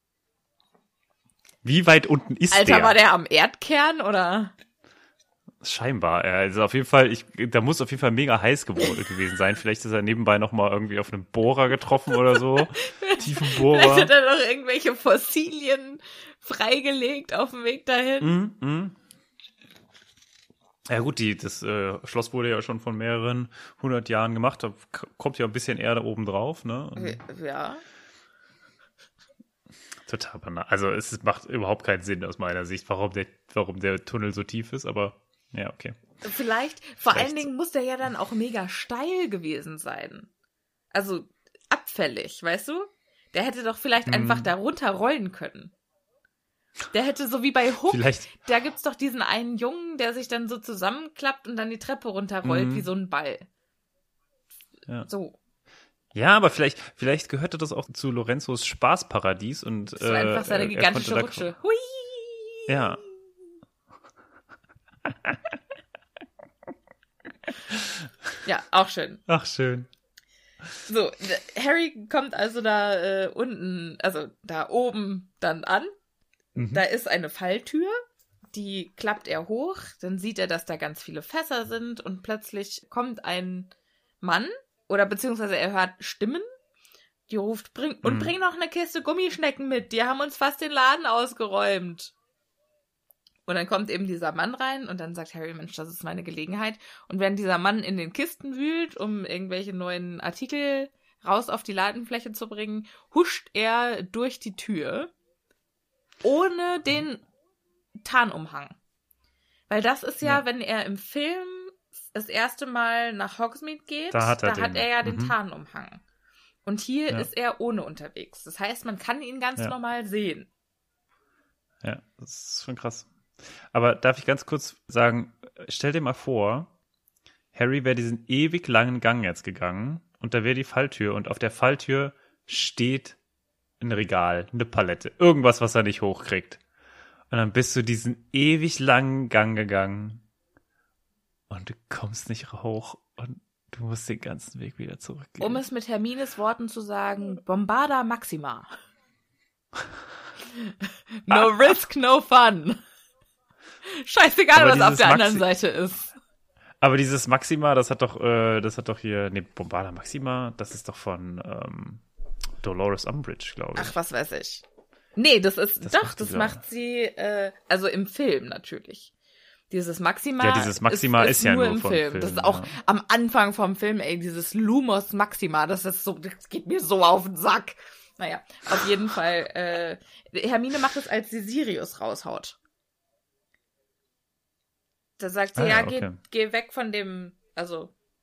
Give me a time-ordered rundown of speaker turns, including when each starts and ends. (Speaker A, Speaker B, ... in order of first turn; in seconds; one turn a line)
Speaker A: 1.6-3.0
Speaker B: 2.5-4.5
Speaker A: 5.6-14.1
Speaker B: 12.3-18.3
Speaker A: 18.2-19.0
Speaker A: 20.9-27.2
Speaker B: 27.0-27.8
Speaker A: 30.1-36.0
Speaker B: 36.2-40.3
Speaker A: 37.1-37.5
Speaker B: 40.9-45.7
Speaker A: 44.1-44.5
Speaker B: 46.9-53.5
Speaker A: 47.9-48.3
Speaker A: 52.4-52.9
Speaker B: 55.1-55.4
Speaker A: 56.1-61.5
Speaker B: 60.0-62.8
Speaker A: 62.7-63.0
Speaker A: 67.7-68.0
Speaker B: 68.4-69.2
Speaker A: 69.3-69.9
Speaker B: 70.9-75.9
Speaker A: 76.6-76.8
Speaker B: 76.7-78.0
Speaker B: 78.5-86.5
Speaker B: 87.3-92.1
Speaker A: 88.0-88.3
Speaker B: 93.5-105.1
Speaker B: 106.2-107.2
Speaker B: 108.0-108.8
Speaker B: 109.7-116.0
Speaker A: 114.1-115.3
Speaker B: 116.7-120.5
Speaker A: 121.8-123.1
Speaker A: 123.7-126.7
Speaker A: 127.5-133.2
Speaker A: 133.8-136.6
Speaker A: 137.3-140.2
Speaker A: 141.5-145.6
Speaker B: 145.4-148.8
Speaker B: 151.3-152.8
Speaker A: 151.3-151.7
Speaker B: 153.9-156.1
Speaker A: 154.5-155.5
Speaker A: 156.8-162.0
Speaker A: 162.6-163.9
Speaker B: 163.8-164.6
Speaker B: 165.2-169.1
Speaker A: 165.8-166.6
Speaker B: 169.7-182.6
Speaker A: 170.4-172.7
Speaker B: 185.2-187.9
Speaker A: 185.6-186.2